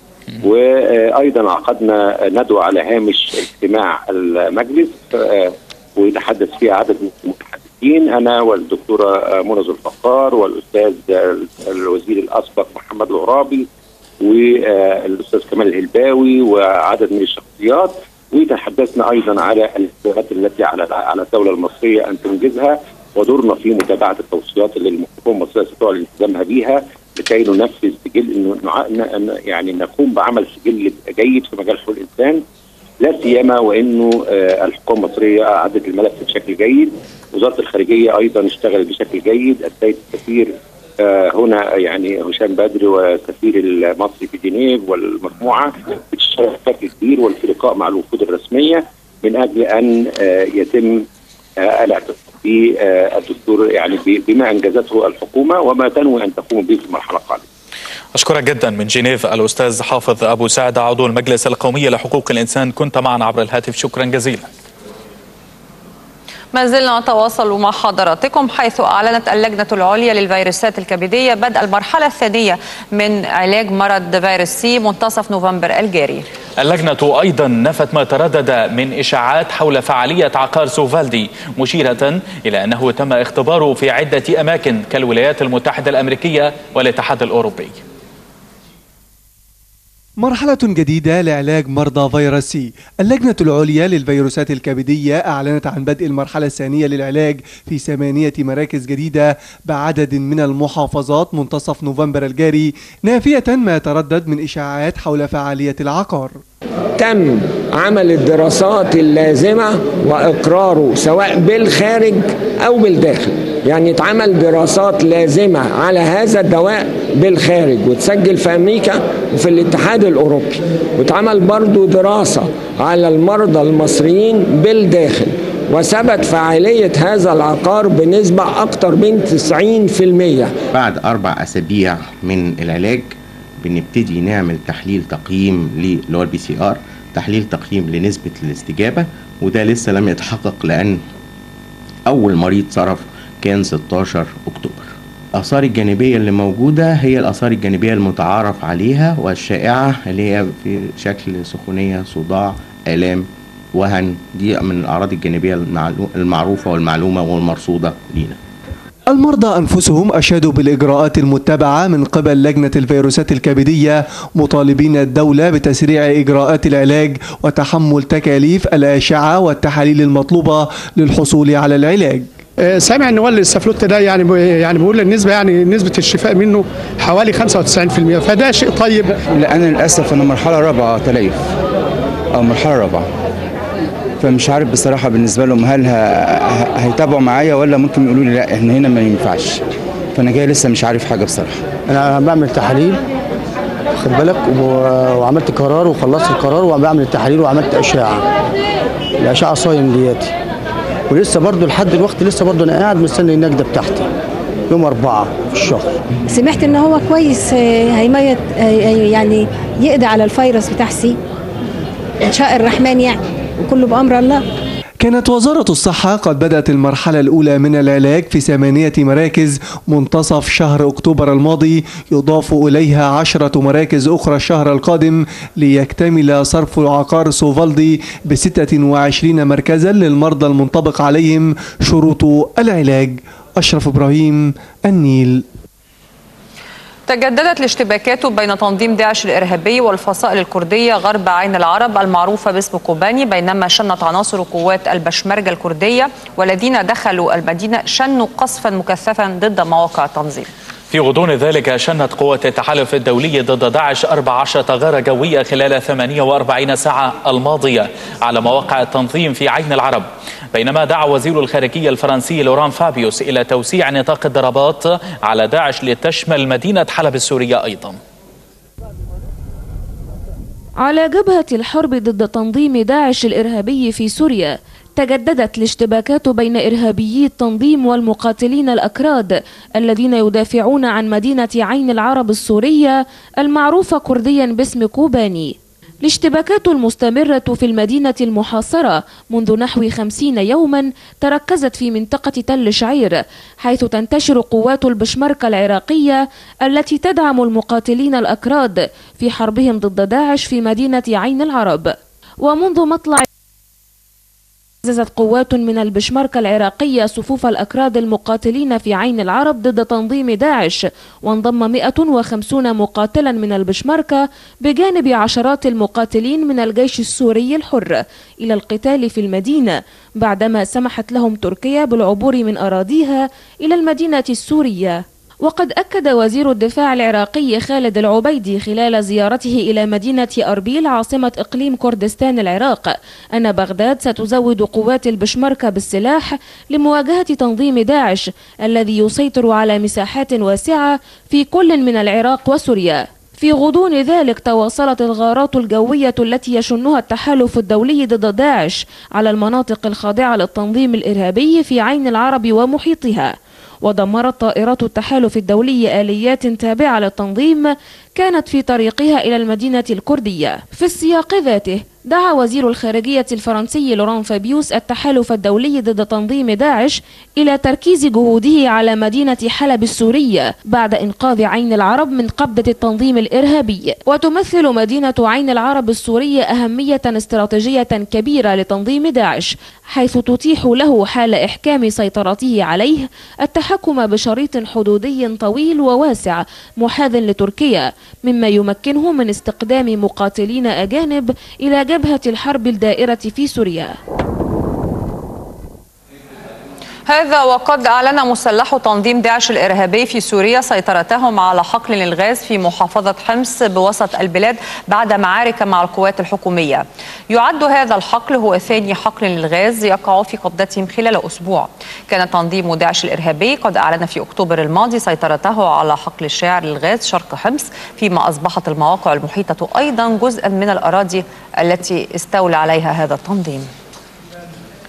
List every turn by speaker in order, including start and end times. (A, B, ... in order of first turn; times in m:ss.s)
0:00.4-0:13.7 A
0:14.2-0:32.4 A
0:33.0-0:51.1 A
0:51.6-0:57.5 A
0:58.2-1:04.5 B
1:06.5-1:16.3 C
1:16.6-1:27.8 B
1:30.2-1:46.4 D
1:47.0-2:10.6 E
2:10.7-2:21.0 F
2:22.1-2:38.4 F
2:39.1-2:52.3 D
2:52.6-2:59.2 G
2:59.3-3:01.4 H
3:02.4-3:03.0 H
3:04.2-3:06.0 H
3:06.8-3:09.5 H
3:10.2-3:11.6 H
3:11.9-3:13.0 I
3:14.0-3:18.2 I
3:19.2-3:20.3 I
3:21.1-3:24.1 I
3:24.7-3:26.0 I
3:26.3-3:31.1 J
3:32.3-3:33.1 J
3:33.6-3:34.3 J
3:35.0-3:55.4 D
3:57.1-4:10.5 C
4:10.9-4:28.0 B
4:30.8-5:03.3 K
5:04.8-6:34.0 K
6:37.1-7:03.7 C